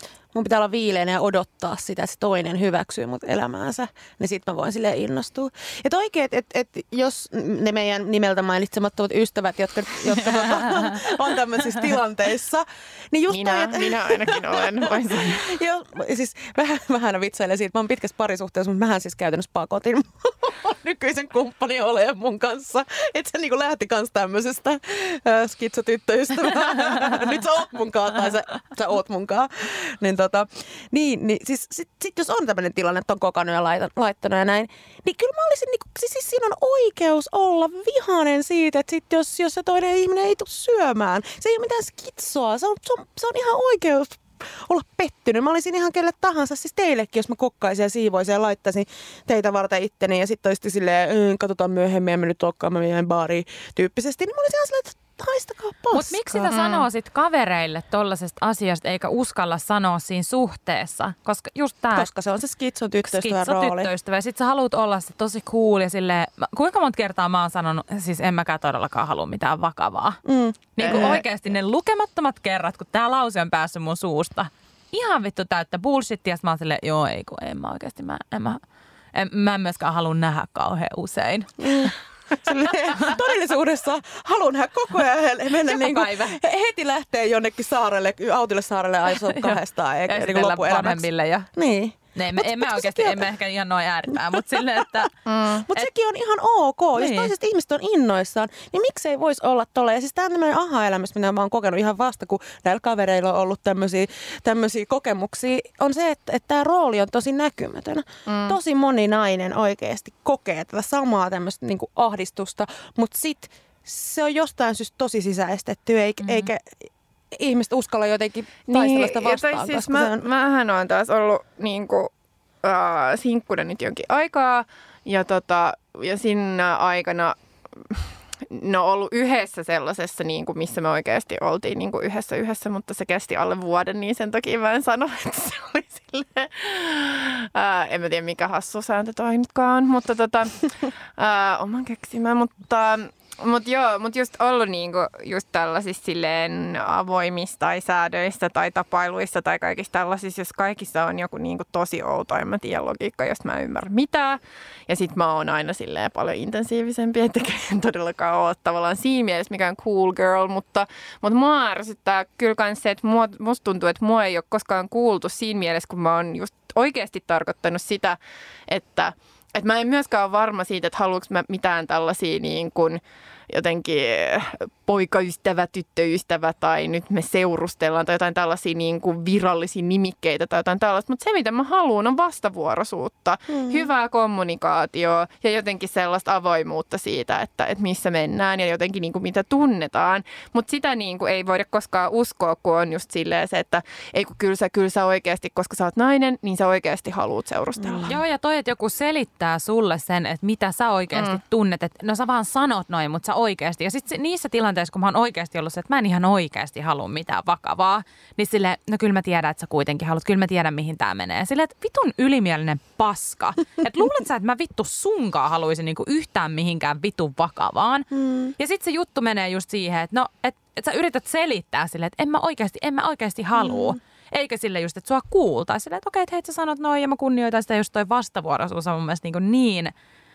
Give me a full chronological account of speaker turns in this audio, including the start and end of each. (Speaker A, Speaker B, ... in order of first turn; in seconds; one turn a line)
Speaker A: 0.3-56.8
Speaker B: 13.3-15.5
Speaker C: 55.9-62.1
Speaker A: 61.9-63.9
Speaker C: 63.0-70.2
Speaker A: 70.2-71.2
Speaker C: 70.8-78.6
Speaker B: 70.8-71.2
Speaker C: 79.1-82.0
Speaker A: 81.6-93.2
Speaker C: 85.7-86.4
Speaker C: 89.1-91.5
Speaker C: 92.1-95.1
Speaker A: 94.3-94.9
Speaker B: 95.3-95.7
Speaker A: 95.7-120.2
Speaker C: 96.9-97.3
Speaker B: 108.3-108.5
Speaker B: 118.7-122.1
Speaker B: 122.6-198.2
Speaker A: 183.5-183.9
Speaker A: 197.8-198.1
Speaker C: 198.1-229.9
Speaker B: 201.1-201.4
Speaker A: 218.2-218.5
Speaker A: 223.6-223.9